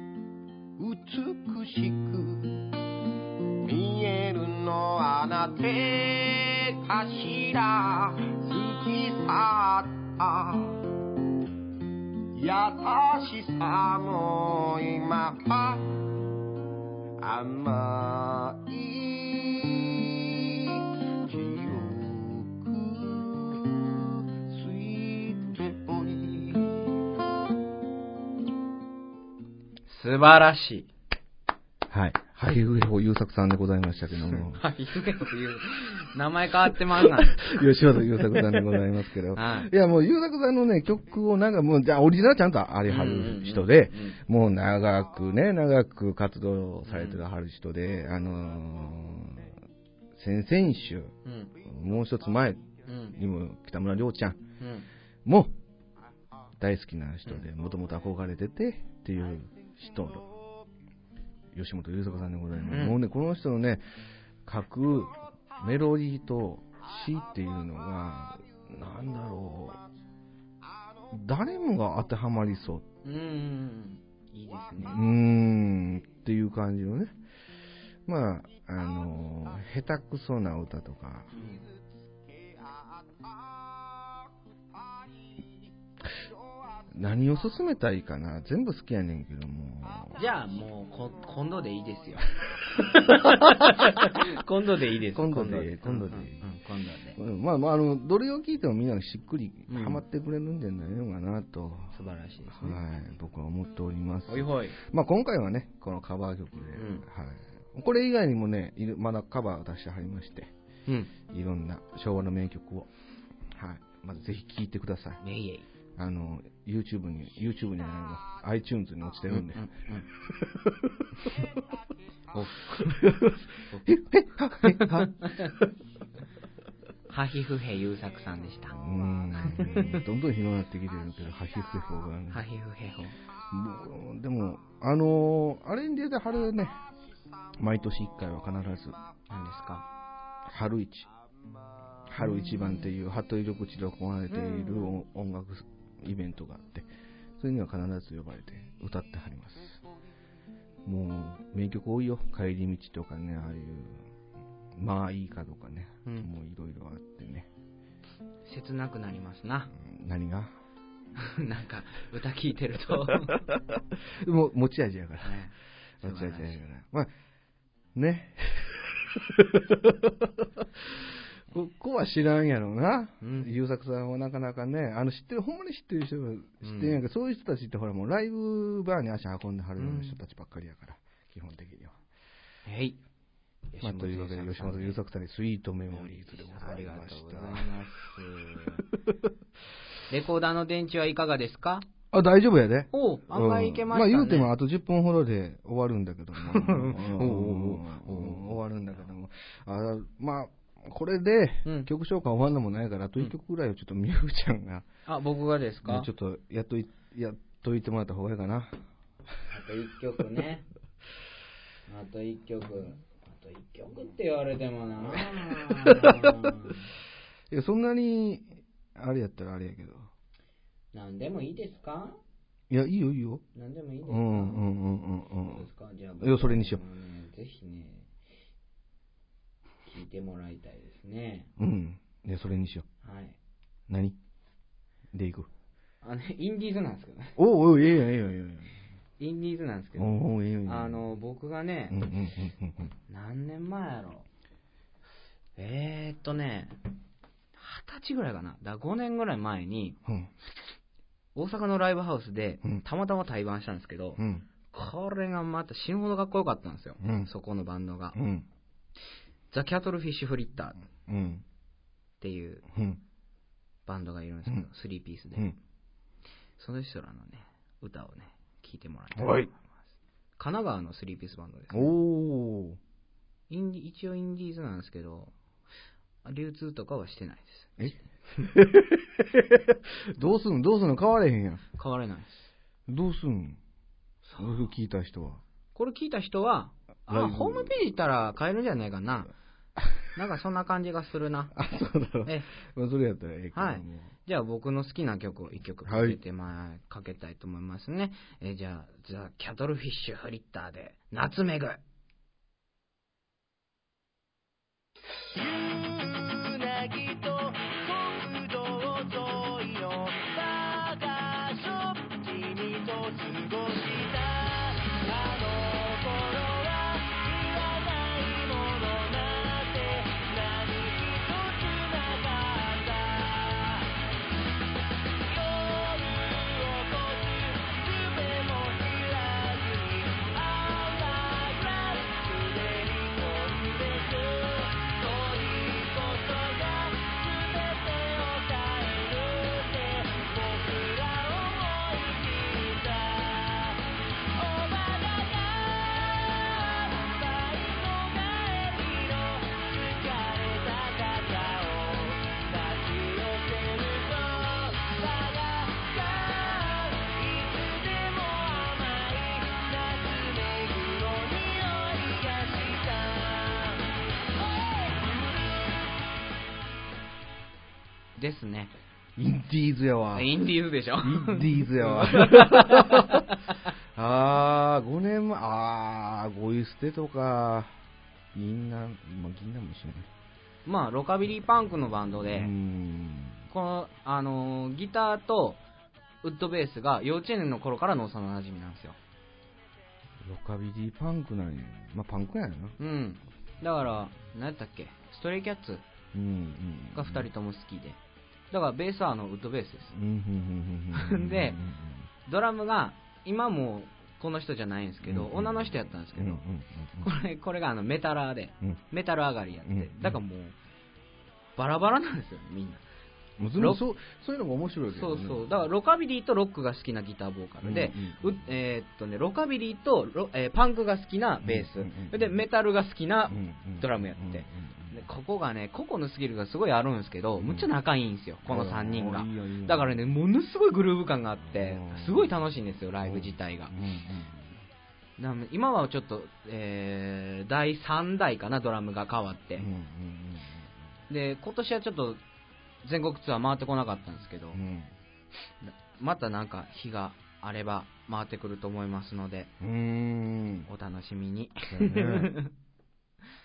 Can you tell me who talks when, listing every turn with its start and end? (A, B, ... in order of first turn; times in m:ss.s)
0:00.8-0:02.7 A
0:03.6-0:10.8 A
0:12.3-0:16.1 A
0:17.2-0:23.8 A
0:24.4-0:26.9 A
0:29.9-0:30.9 B
0:31.9-0:34.6 C
0:34.3-0:37.4 B
0:37.0-0:49.6 C
0:39.3-0:39.7 B
0:42.9-0:44.2 B
0:46.8-0:47.2 B
0:50.1-0:54.4 C
0:51.2-0:51.5 B
0:52.8-0:53.2 B
0:54.6-0:54.9 B
0:55.2-0:55.5 C
0:56.6-1:00.3 C
1:01.5-1:03.8 C
1:02.6-1:03.0 B
1:04.4-1:09.8 C
1:11.1-1:12.8 C
1:13.0-1:15.0 B
1:14.8-1:17.1 C
1:18.0-1:21.3 C
1:21.3-1:21.6 B
1:22.6-1:23.3 A
1:26.9-1:30.2 C
1:30.2-1:37.2 B
1:33.1-1:33.9 C
1:35.1-1:36.4 C
1:37.2-1:41.9 C
1:39.7-1:40.0 B
1:41.9-1:42.8 B
1:42.5-1:50.5 C
1:44.3-1:44.8 B
1:46.7-1:47.0 B
1:50.9-1:51.1 B
1:51.2-1:52.9 C
1:53.5-1:55.2 C
1:55.2-1:55.6 B
1:56.0-1:59.7 C
1:59.3-2:00.1 B
2:00.3-2:01.4 C
2:02.3-2:03.0 B
2:02.7-2:05.7 C
2:04.6-2:05.5 B
2:07.1-2:08.8 B
2:08.7-2:12.4 C
2:09.4-2:10.0 B
2:12.3-2:13.2 B
2:13.5-2:16.8 C
2:17.6-2:19.0 C
2:19.3-2:19.9 B
2:20.4-2:21.1 C
2:22.1-2:26.9 C
2:22.2-2:22.8 B
2:24.3-2:25.0 B
2:27.4-2:29.8 C
2:30.8-2:34.1 C
2:34.7-2:37.5 C
2:38.4-2:39.7 B
2:39.7-2:40.5 C
2:41.2-2:43.5 B
2:43.1-2:45.4 C
2:45.2-2:46.6 B
2:46.0-2:47.1 C
2:47.9-3:01.9 C
2:53.2-2:53.5 B
2:56.6-2:57.0 B
2:59.8-3:00.2 B
3:02.6-3:03.0 B
3:03.7-3:05.0 B
3:03.8-3:07.7 C
3:05.9-3:08.8 B
3:10.1-3:11.9 B
3:12.1-3:24.8 C
3:12.9-3:14.5 B
3:16.4-3:18.6 B
3:25.1-3:26.1 B
3:25.8-3:28.8 C
3:29.5-3:30.6 B
3:31.9-3:36.9 B
3:35.0-3:36.5 C
3:37.5-3:40.1 C
3:40.9-3:42.2 B
3:42.7-3:43.4 C
3:43.5-3:44.6 B
3:44.0-3:45.6 C
3:45.4-3:48.1 B
3:46.2-3:46.8 C
3:49.8-3:51.5 B
3:51.6-3:52.9 C
3:53.0-3:53.4 B
3:53.9-3:54.2 C
3:55.1-3:55.5 C
3:56.0-3:57.4 B
3:57.4-3:58.7 C
3:59.2-4:02.0 B
4:00.0-4:01.0 C
4:01.9-4:02.9 C
4:03.1-4:04.3 B
4:05.6-4:06.8 B
4:07.6-4:10.0 B
4:10.0-4:10.3 C
4:11.3-4:14.2 B
4:14.2-4:14.4 C
4:14.7-4:18.2 B
4:17.0-4:17.3 C
4:18.1-4:18.4 C
4:19.5-4:20.8 B
4:20.9-4:21.4 C
4:22.2-4:22.6 B
4:22.7-4:23.0 C
4:23.8-4:25.5 B
4:26.6-4:29.8 B
4:29.2-4:29.5 C
4:30.4-4:31.9 B
4:31.7-4:32.8 C
4:33.5-4:35.3 B
4:36.2-4:37.9 B
4:37.8-4:41.6 C
4:41.8-4:42.4 B
4:42.9-4:43.6 C
4:44.2-4:44.7 B
4:44.4-4:45.4 C
4:45.7-4:49.3 B
4:47.1-4:47.7 C
4:49.8-4:50.0 C
4:50.1-4:51.5 B
4:51.5-4:54.1 C
4:53.5-5:01.8 B
4:55.8-4:56.2 C
5:05.3-5:23.9 D
5:25.2-5:43.8 D
5:44.3-6:05.1 D
6:08.2-6:08.7 B
6:09.2-6:10.3 C
6:10.1-6:13.6 B
6:11.0-6:13.2 C
6:13.9-6:17.8 C
6:18.3-6:20.1 C
6:20.6-6:22.5 B
6:22.3-6:23.4 C
6:23.5-6:25.6 B
6:26.2-6:29.0 B
6:30.2-6:32.8 C
6:32.8-6:35.8 B
6:36.1-6:37.3 C
6:36.9-6:38.0 B
6:38.5-6:39.9 B
6:39.9-6:42.0 C
6:40.9-6:41.6 B
6:42.2-6:46.4 B
6:45.0-6:47.1 C
6:47.0-6:50.6 B
6:49.7-6:50.2 C
6:51.6-6:52.8 B
6:53.4-6:55.4 C
6:54.9-7:13.7 B
6:57.6-6:58.4 C
7:01.4-7:02.3 C
7:03.3-7:05.0 C
7:07.4-7:07.7 C
7:08.4-7:10.0 C
7:11.5-7:12.3 C
7:13.0-7:14.6 C
7:15.2-7:19.6 B
7:19.6-7:20.7 C
7:21.1-7:22.2 B
7:22.8-7:24.6 B
7:24.5-7:24.9 C
7:25.6-7:29.5 B
7:29.6-7:30.7 C
7:30.7-7:32.5 B
7:31.7-7:32.3 C